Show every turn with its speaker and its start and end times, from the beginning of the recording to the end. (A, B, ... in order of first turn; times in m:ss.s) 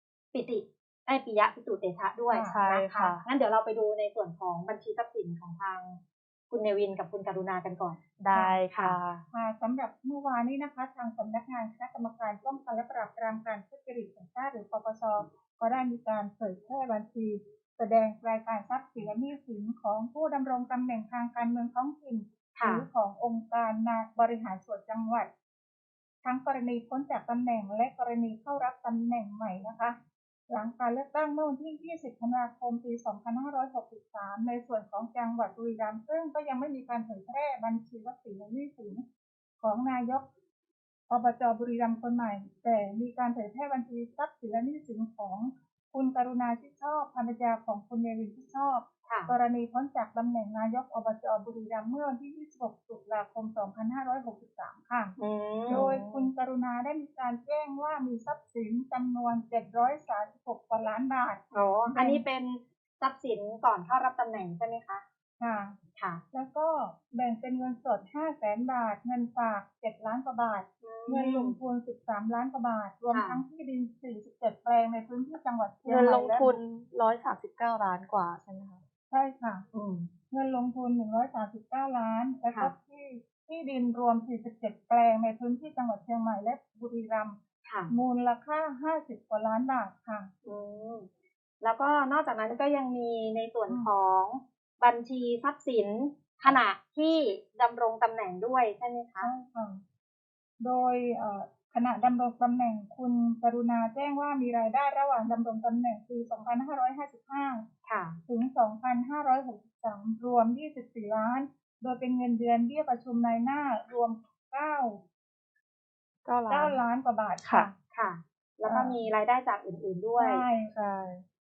0:00.3-0:08.0 A
0:02.3-0:02.6 B
0:02.5-0:03.2 C
0:08.2-0:09.2 C
0:08.3-0:08.6 B
0:09.3-0:25.3 B
0:22.6-0:22.9 A
0:26.2-0:30.0 B
0:30.5-0:39.0 B
0:39.6-0:40.3 B
0:41.1-0:55.2 B
0:49.1-0:49.3 A
0:55.2-0:56.3 A
0:55.7-1:02.2 B
1:01.5-1:05.0 A
1:05.4-1:05.8 B
1:06.0-1:06.2 A
1:06.3-1:16.6 B
1:10.8-1:11.6 A
1:13.1-1:13.4 A
1:15.8-1:18.8 C
1:19.1-1:19.6 B
1:19.7-1:20.1 A
1:20.3-1:27.4 B
1:27.6-1:27.9 A
1:27.9-1:30.3 B
1:30.4-1:31.1 A
1:31.6-1:39.3 A
1:39.2-1:39.8 B
1:40.6-1:47.7 B
1:47.9-1:48.2 A
1:48.3-1:55.0 B
1:56.3-1:56.8 C
1:56.5-1:57.8 B
1:57.9-2:00.4 A
1:58.6-1:59.0 B
2:00.2-2:00.7 B
2:00.7-2:01.2 C